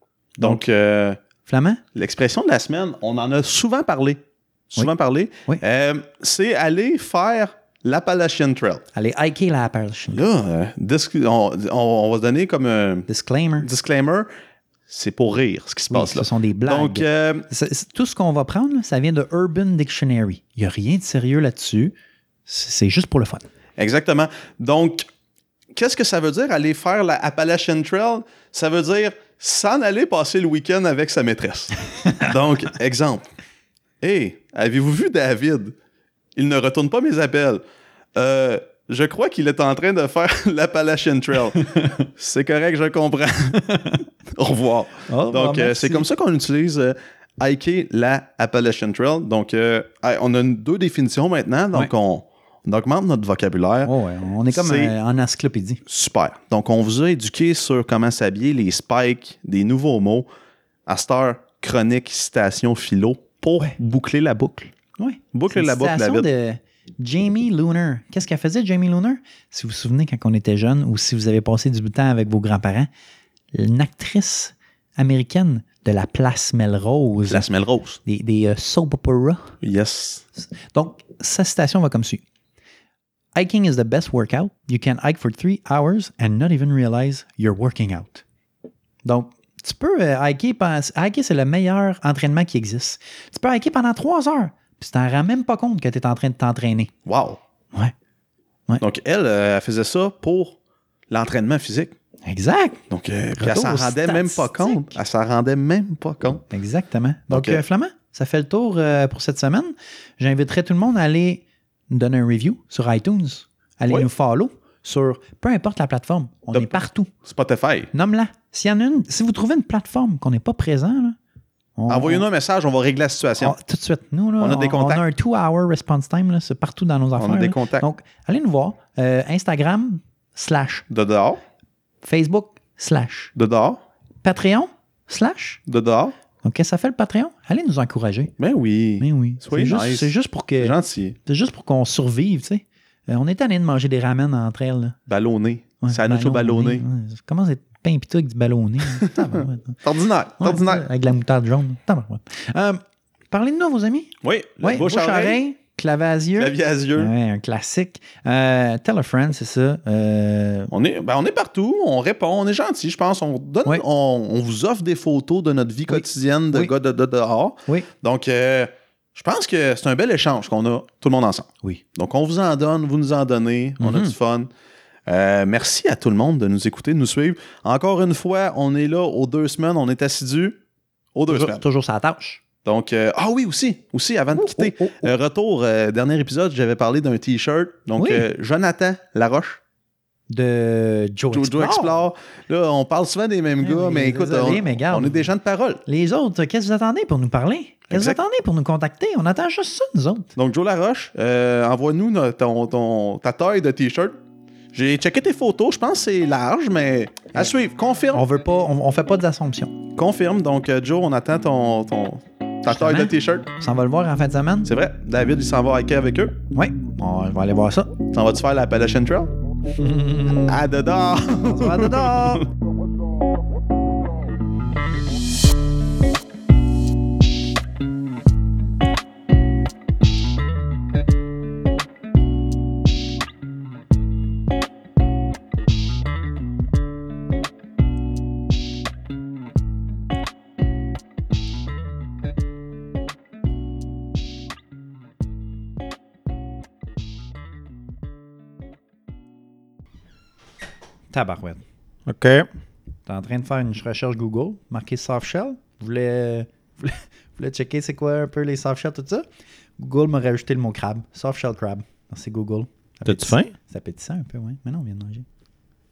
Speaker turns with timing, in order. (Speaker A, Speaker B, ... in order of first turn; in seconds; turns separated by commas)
Speaker A: 0.4-1.2, Speaker B: 1.4-1.8, Speaker A: 1.9-8.8, Speaker B: 8.9-10.2, Speaker A: 10.1-13.1, Speaker B: 13.1-13.7, Speaker A: 13.6-14.3, Speaker A: 14.9-17.5, Speaker B: 15.9-21.9, Speaker B: 22.4-23.4, Speaker A: 23.8-25.1, Speaker A: 25.7-33.2, Speaker A: 34.0-35.7, Speaker A: 36.4-37.6, Speaker A: 38.1-53.9, Speaker B: 45.1-46.1, Speaker B: 53.9-55.8, Speaker A: 54.5-54.9, Speaker A: 55.9-60.3, Speaker A: 60.9-64.7, Speaker B: 65.0-72.9, Speaker A: 65.3-66.3, Speaker B: 73.5-77.5, Speaker A: 77.3-78.0, Speaker B: 78.0-79.5, Speaker A: 79.6-80.2, Speaker B: 80.4-82.2, Speaker B: 83.3-88.2, Speaker B: 89.0-96.9, Speaker A: 97.0-97.4, Speaker A: 98.8-100.5, Speaker A: 101.1-101.9, Speaker B: 102.2-102.8, Speaker A: 102.9-106.4, Speaker B: 103.4-105.0, Speaker B: 106.5-117.1, Speaker A: 107.3-107.6, Speaker A: 116.5-117.9, Speaker B: 117.9-121.2, Speaker B: 121.8-122.2, Speaker A: 121.9-123.5, Speaker B: 123.4-130.8, Speaker A: 124.4-125.0, Speaker A: 127.2-127.8, Speaker A: 130.9-131.4, Speaker B: 132.0-133.3, Speaker A: 133.3-133.8, Speaker B: 134.2-135.6, Speaker A: 135.7-136.1, Speaker B: 136.4-138.3, Speaker A: 138.4-141.2, Speaker B: 139.0-145.0, Speaker A: 145.1-146.8, Speaker B: 145.8-149.8, Speaker A: 149.8-150.8, Speaker B: 150.4-152.8, Speaker B: 153.3-160.7, Speaker A: 154.2-155.4, Speaker A: 156.4-157.1, Speaker A: 160.7-174.5, Speaker B: 165.9-166.7, Speaker B: 173.8-174.1, Speaker A: 175.1-180.6, Speaker A: 181.1-181.6, Speaker B: 181.3-182.4, Speaker A: 182.6-189.6, Speaker B: 184.3-185.1, Speaker B: 188.0-188.3, Speaker B: 190.3-191.9, Speaker A: 191.3-195.8, Speaker B: 193.6-195.3, Speaker B: 195.8-200.3, Speaker A: 197.9-198.2, Speaker A: 200.3-204.2, Speaker A: 204.7-208.2, Speaker B: 208.1-209.8, Speaker A: 209.9-213.5, Speaker B: 212.7-214.7, Speaker A: 214.6-216.4, Speaker B: 216.5-217.9, Speaker A: 218.1-219.3, Speaker B: 219.8-220.6, Speaker A: 220.4-222.5, Speaker B: 221.3-222.4, Speaker B: 251.1-251.6, Speaker A: 252.1-252.5, Speaker B: 253.1-259.2, Speaker B: 259.8-265.2, Speaker A: 263.0-263.5